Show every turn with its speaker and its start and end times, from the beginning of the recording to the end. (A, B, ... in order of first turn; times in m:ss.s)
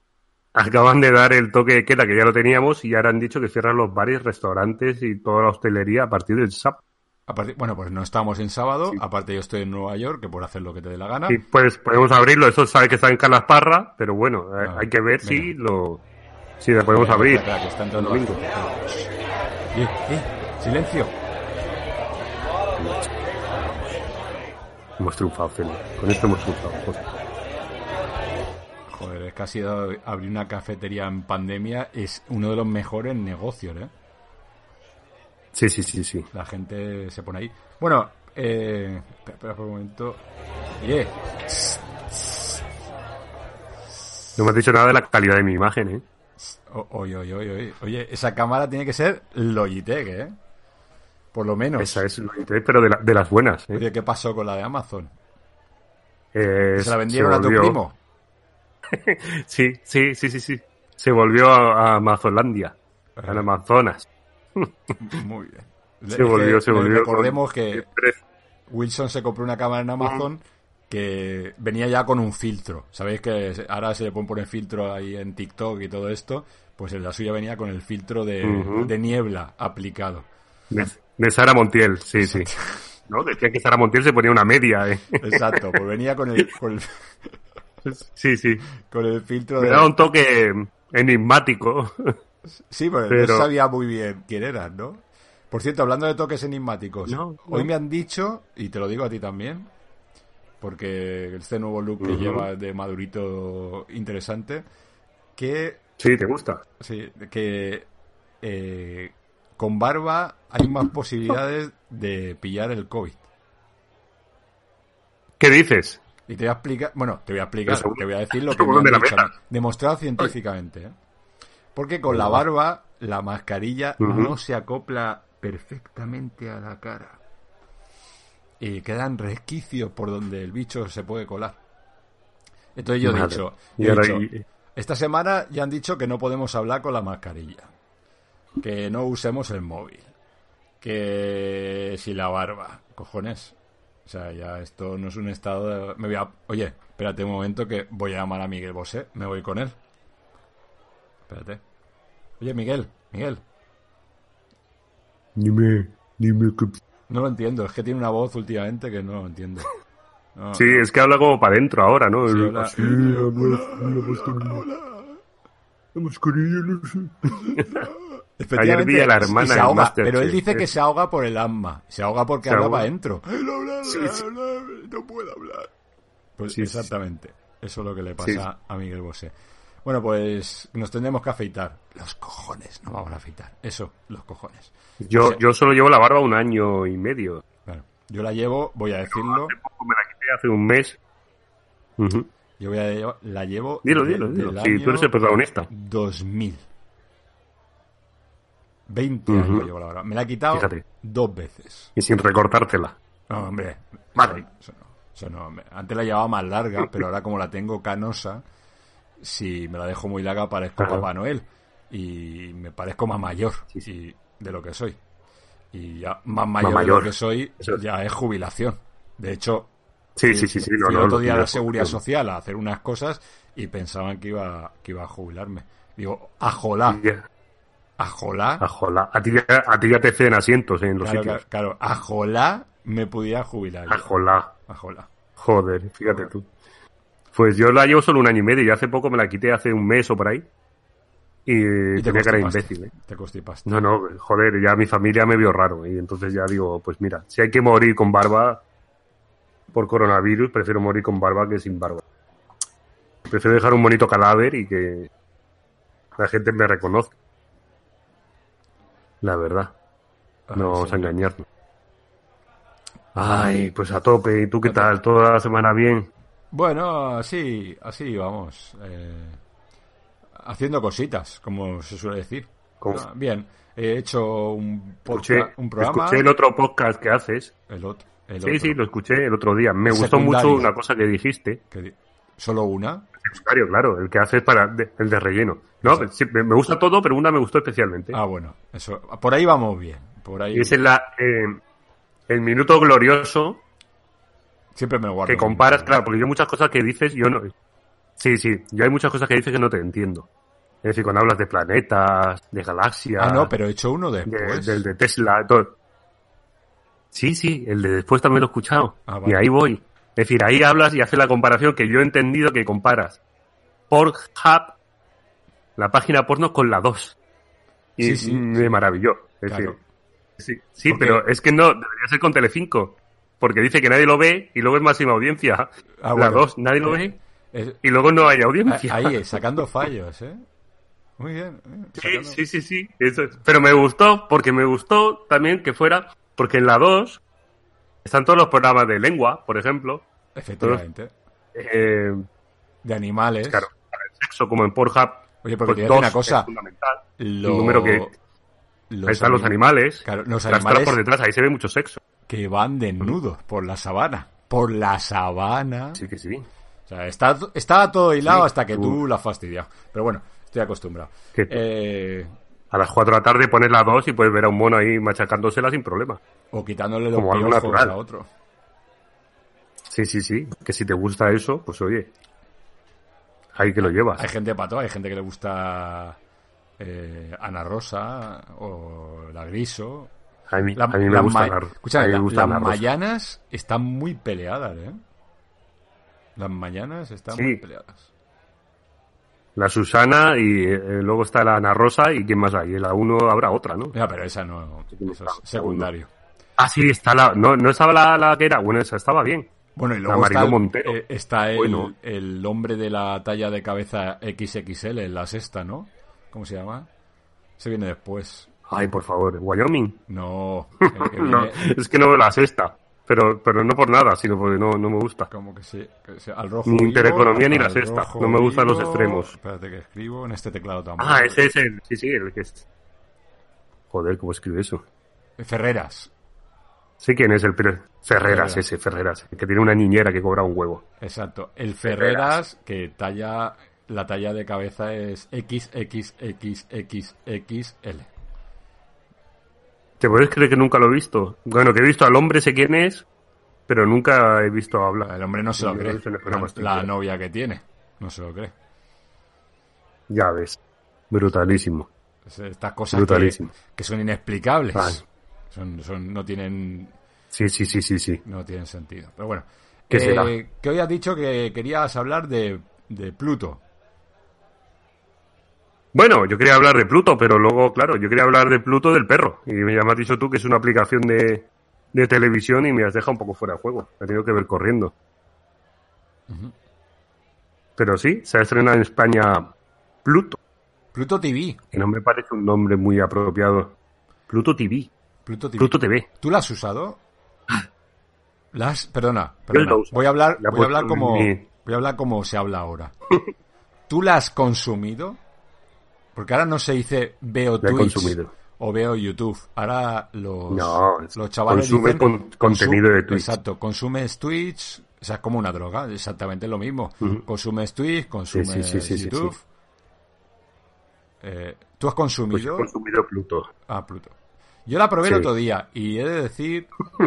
0:00.6-0:06.8 A
0:07.3-0:11.4 B
0:11.3-0:16.0 A
0:14.6-0:15.6 B
0:16.6-0:18.4 A
0:16.9-0:19.1 B
0:19.7-0:21.2 B
0:22.8-0:23.1 A
0:25.0-0:27.0 A
0:28.9-0:33.9 B
0:35.5-0:36.3 A
0:36.3-0:40.2 B
0:40.8-0:42.6 B
0:44.4-0:46.0 A
0:46.4-0:50.4 B
0:51.3-0:52.0 B
0:51.8-0:53.8 A
0:53.7-0:55.1 B
0:56.3-0:57.8 A
0:56.8-0:58.0 B
0:58.9-1:04.7 A
1:03.2-1:03.5 B
1:05.0-1:07.9 B
1:06.1-1:08.2 A
1:08.7-1:20.3 B
1:18.4-1:18.9 A
1:20.7-1:22.5 A
1:22.2-1:22.8 B
1:23.1-1:25.7 A
1:25.2-1:27.0 B
1:27.8-1:28.7 A
1:28.8-1:30.0 B
1:29.6-1:32.1 A
1:32.5-1:39.7 B
1:33.1-1:33.5 A
1:37.1-1:37.7 A
1:40.6-1:44.7 B
1:42.0-1:42.5 A
1:45.4-1:45.8 B
1:46.0-1:46.6 A
1:46.8-1:47.9 B
1:48.4-1:53.2 B
1:55.4-1:56.0 A
1:56.3-2:01.0 B
1:57.7-1:59.3 A
2:01.8-2:07.2 B
2:02.1-2:02.4 A
2:04.0-2:04.4 A
2:08.6-2:11.6 B
2:12.8-2:17.7 B
2:13.0-2:14.4 A
2:18.6-2:20.1 B
2:20.8-2:29.8 B
2:31.3-2:31.6 B
2:32.4-2:33.4 B
2:35.4-2:36.8 A
2:37.1-2:39.7 B
2:40.4-2:40.9 B
2:40.5-2:44.6 A
2:42.3-2:45.2 B
2:46.0-2:47.9 A
2:47.4-2:55.7 B
2:48.6-2:50.7 A
2:52.4-2:52.9 A
2:53.8-2:54.2 A
2:56.4-3:05.4 B
2:56.5-2:56.9 A
3:05.0-3:07.4 A
3:07.7-3:09.6 B
3:09.1-3:11.0 A
3:12.0-3:12.3 A
3:12.6-3:15.1 B
3:13.8-3:15.7 A
3:15.7-3:16.6 B
3:18.9-3:21.9 B
3:19.3-3:19.7 A
3:20.5-3:20.8 A
3:22.0-3:23.0 A
3:23.3-3:28.4 B
3:24.2-3:24.4 A
3:29.2-3:35.0 B
3:30.8-3:31.1 A
3:35.7-3:39.7 B
3:36.6-3:37.8 A
3:40.2-3:42.0 A
3:40.3-3:47.0 B
3:46.9-3:47.2 A
3:48.0-3:48.6 B
3:48.6-3:51.4 A
3:51.0-3:54.1 B
3:53.9-3:54.5 A
3:54.7-3:55.1 B
3:55.4-3:56.5 A
3:57.3-4:00.5 A
4:01.5-4:02.9 A
4:02.0-4:03.8 B
4:03.7-4:08.6 A
4:09.7-4:12.0 A
4:13.3-4:15.1 A
4:16.2-4:17.1 A
4:19.2-4:19.7 A
4:20.5-4:21.2 B
4:20.6-4:21.5 A
4:23.1-4:26.1 A
4:24.6-4:24.9 B
4:26.5-4:29.4 B
4:30.4-4:36.3 B
4:32.8-4:33.1 A
4:35.1-4:37.5 A
4:37.7-4:38.8 B
4:38.4-4:41.6 A
4:39.8-4:40.7 B
4:41.7-4:43.1 B
4:43.2-4:48.2 A
4:45.8-4:46.1 B
4:48.1-4:50.8 B
4:50.5-4:51.6 A
4:52.3-4:53.6 A
4:54.8-4:56.0 B
4:55.2-4:57.5 A
4:58.2-5:00.3 A
5:00.8-5:03.5 A
5:03.2-5:04.9 B
5:04.3-5:05.8 A
5:07.1-5:13.2 A
5:09.1-5:09.5 B
5:13.9-5:14.8 A
5:15.8-5:17.2 A
5:18.0-5:19.8 A
5:18.0-5:18.8 B
5:19.5-5:19.8 B
5:20.4-5:27.2 A
5:20.9-5:21.2 B
5:26.0-5:27.8 B
5:27.8-5:29.4 A
5:28.7-5:30.4 B
5:31.2-5:32.4 B
5:32.0-5:37.2 A
5:38.0-5:40.1 A
5:40.4-5:41.1 B
5:41.5-5:42.2 A
5:42.8-5:43.7 B
5:43.5-5:48.1 A
5:45.4-5:46.5 B
5:47.2-5:48.1 B
5:48.9-5:51.0 B
5:49.1-5:52.0 A
5:52.3-5:56.0 B
5:56.0-5:56.5 A
5:56.9-6:02.3 B
5:58.2-5:59.0 A
6:01.4-6:01.6 A
6:02.7-6:06.2 A
6:06.5-6:08.3 B
6:07.1-6:08.0 A
6:09.9-6:12.1 A
6:13.6-6:14.3 A
6:13.8-6:16.2 B
6:16.8-6:20.1 B
6:20.5-6:22.8 A
6:20.8-6:25.0 B
6:26.4-6:28.1 B
6:27.3-6:27.6 A
6:29.6-6:34.0 A
6:33.9-6:36.1 B
6:34.9-6:35.9 A
6:36.6-6:39.5 A
6:39.8-6:46.9 B
6:40.1-6:41.0 A
6:41.6-6:41.9 A
6:47.6-6:48.5 B
6:48.7-6:50.0 A
6:50.1-6:51.7 B
6:50.8-6:55.3 A
6:55.3-7:01.5 B
6:56.7-6:59.3 A
7:01.0-7:02.7 A
7:03.9-7:04.8 A
7:05.4-7:06.1 B
7:07.0-7:10.8 A
7:08.2-7:08.6 B
7:11.0-7:18.1 B
7:11.8-7:12.4 A
7:20.0-7:23.1 A
7:23.7-7:26.9 A
7:25.0-7:28.5 B
7:30.1-7:30.6 A
7:31.1-7:31.9 A
7:32.2-7:36.9 B
7:32.9-7:33.5 A
7:34.7-7:35.0 A
7:37.3-7:38.2 A
7:38.2-7:43.6 B
7:39.9-7:40.3 A
7:45.9-7:54.9 A
7:56.3-7:56.5 B
7:57.8-7:59.5 A
8:00.0-8:00.4 A
8:00.9-8:01.6 B
8:01.7-8:03.8 A
8:04.3-8:04.9 A
8:05.2-8:07.0 B
8:05.6-8:06.1 A
8:08.5-8:12.9 B
8:09.5-8:11.4 A
8:13.9-8:15.2 B
8:16.1-8:29.4 B
8:17.6-8:18.3 A
8:20.5-8:23.4 A
8:28.3-8:29.4 A
8:31.2-8:32.7 B
8:32.3-8:33.5 A
8:33.7-8:36.7 B